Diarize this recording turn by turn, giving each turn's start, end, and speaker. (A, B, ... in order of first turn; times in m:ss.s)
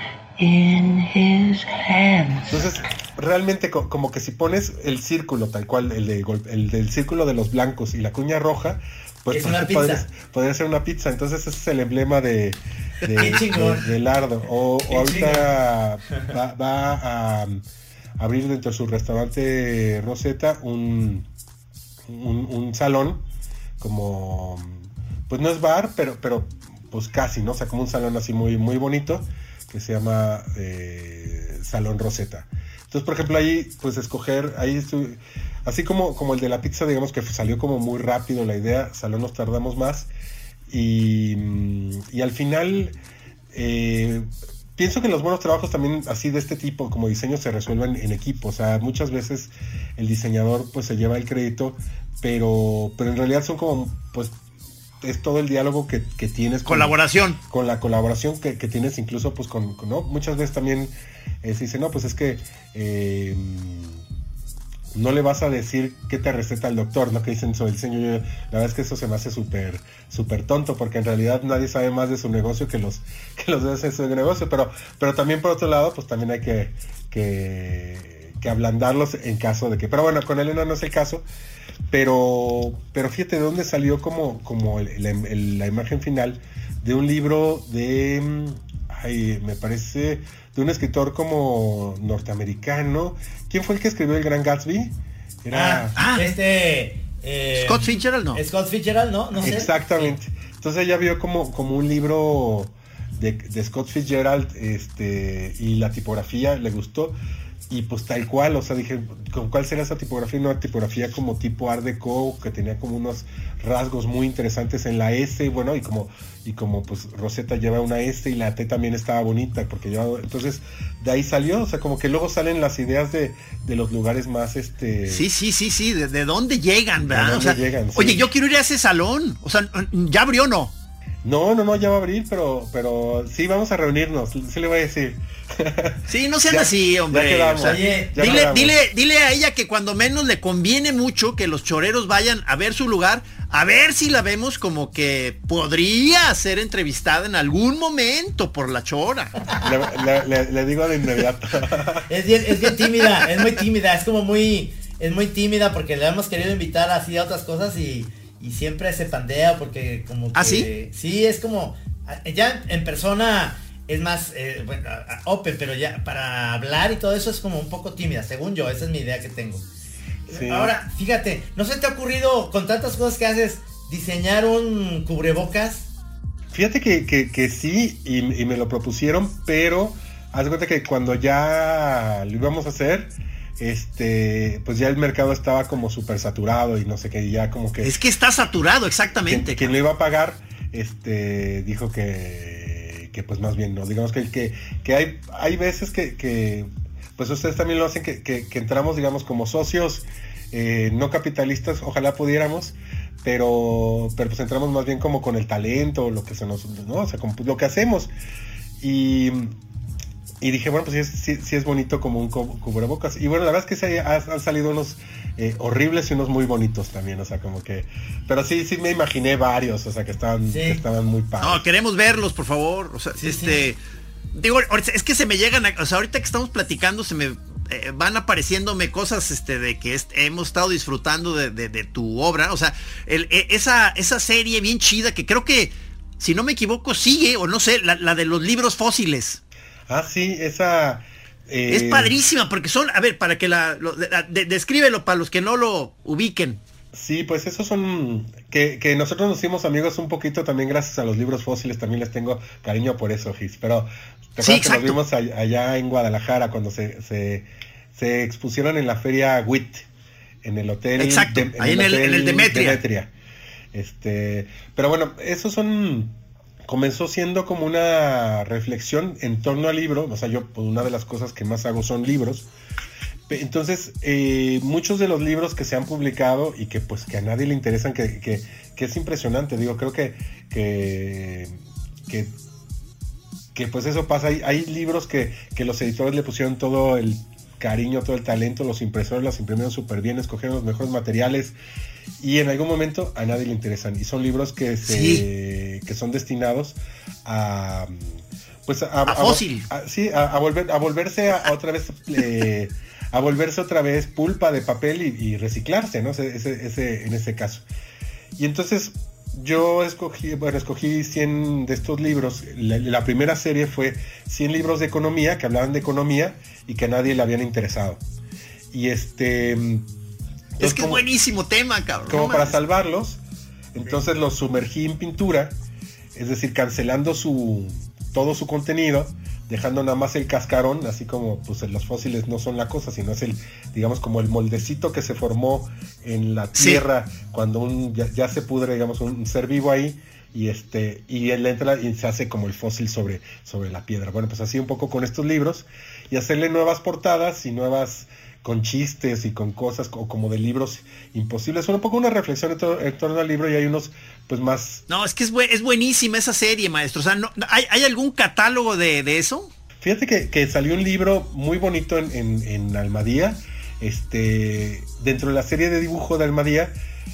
0:00.4-0:02.7 A
0:02.5-0:17.6 B
0:09.3-0:10.0 C
0:13.1-0:13.9 C
0:14.9-0:15.5 C
0:18.2-0:21.2 B
0:22.1-0:23.2 B
0:23.8-0:40.1 B
0:40.7-0:43.0 B
0:43.5-0:54.4 B
0:55.0-1:04.0 B
0:56.6-0:57.4 D
1:04.9-1:21.2 B
1:21.9-1:36.0 B
1:35.5-1:39.8 C
1:36.0-1:36.4 D
1:37.6-1:38.4 D
1:39.4-1:47.2 B
1:47.7-2:05.3 B
2:05.1-2:10.7 D
2:07.1-2:08.2 B
2:11.2-2:18.8 B
2:16.1-2:29.3 D
2:17.6-2:18.4 C
2:29.6-2:32.1 B
2:32.1-2:49.6 C
2:40.3-2:40.7 D
2:50.3-2:55.9 C
2:50.3-2:50.7 B
2:56.5-3:07.9 B
3:07.8-3:09.7 D
3:09.2-3:28.1 B
3:28.8-3:29.6 B
3:30.4-3:41.7 B
3:40.5-3:40.8 C
3:41.4-3:43.8 D
3:43.2-3:43.6 C
3:44.3-3:59.4 D
3:59.9-4:02.1 B
4:01.7-4:06.6 D
4:06.9-4:19.9 B
4:14.4-4:15.0 D
4:20.4-4:23.1 B
4:21.0-4:22.8 D
4:23.7-4:32.5 B
4:33.3-4:42.3 B
4:43.5-4:51.5 B
4:52.2-5:07.6 B
4:54.8-4:55.2 D
4:59.1-4:59.6 D
5:08.4-5:18.0 B
5:18.7-5:19.9 B
5:20.6-5:21.0 B
5:20.6-5:22.6 D
5:22.1-5:23.2 B
5:23.7-5:25.5 B
5:26.1-5:54.8 B
5:36.5-5:36.8 D
5:54.9-5:59.5 D
5:59.8-6:06.7 B